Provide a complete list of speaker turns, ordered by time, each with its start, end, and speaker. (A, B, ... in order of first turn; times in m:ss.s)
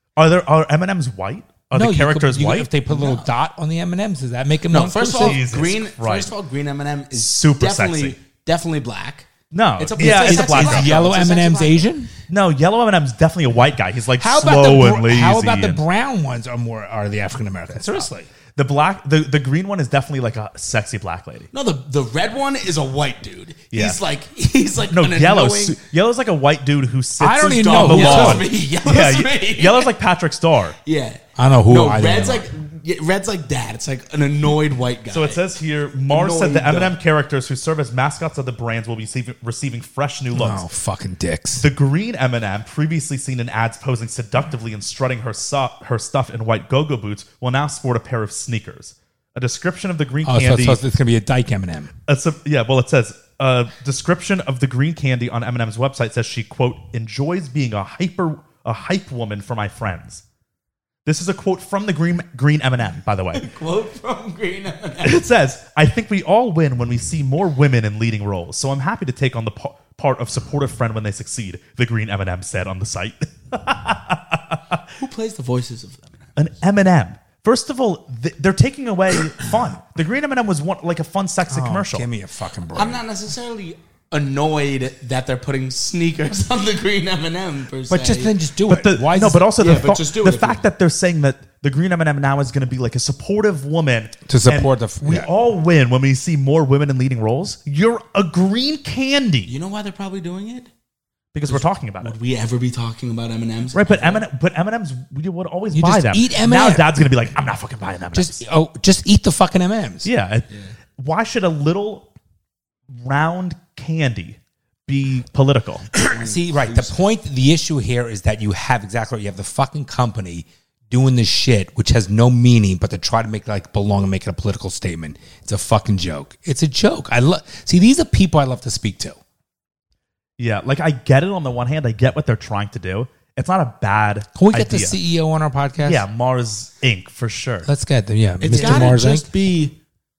0:00.2-0:02.7 A
0:01.7-0:05.4 B
0:02.9-0:03.3 C
0:04.7-0:11.9 C
0:05.1-0:06.3 A
0:07.1-0:08.2 A
0:09.5-0:11.0 A
0:10.0-0:12.1 B
0:12.3-0:15.8 A
0:14.2-0:18.3 B
0:17.8-0:21.5 A
0:21.5-0:25.8 C
0:23.7-0:24.0 A
0:24.9-0:30.8 A
0:27.2-0:28.4 B
0:27.5-0:29.9 C
0:30.8-0:35.5 C
0:31.4-0:32.5 B
0:35.1-0:40.6 A
0:36.1-0:37.0 C
0:40.3-0:41.6 B
0:41.6-0:50.8 A
0:50.2-0:51.9 B
0:52.1-1:00.2 A
1:01.1-1:03.5 A
1:03.3-1:05.2 C
1:05.0-1:14.8 A
1:15.0-1:16.3 C
1:16.4-1:22.1 A
1:21.5-1:23.0 B
1:22.7-1:28.4 C
1:27.9-1:29.5 B
1:28.7-1:39.5 A
1:29.6-1:30.7 C
1:34.3-1:35.3 B
1:39.5-1:40.7 C
1:41.3-1:42.2 A
1:41.5-1:44.2 C
1:43.7-1:48.4 A
1:45.7-1:46.9 B
1:48.1-1:50.1 B
1:50.0-1:52.1 A
1:53.0-1:55.9 A
1:55.9-2:09.2 B
1:56.1-1:57.0 C
2:10.4-2:15.0 A
2:14.4-2:16.0 B
2:15.8-2:17.7 A
2:17.6-2:19.3 B
2:18.4-2:19.8 C
2:18.6-2:18.9 A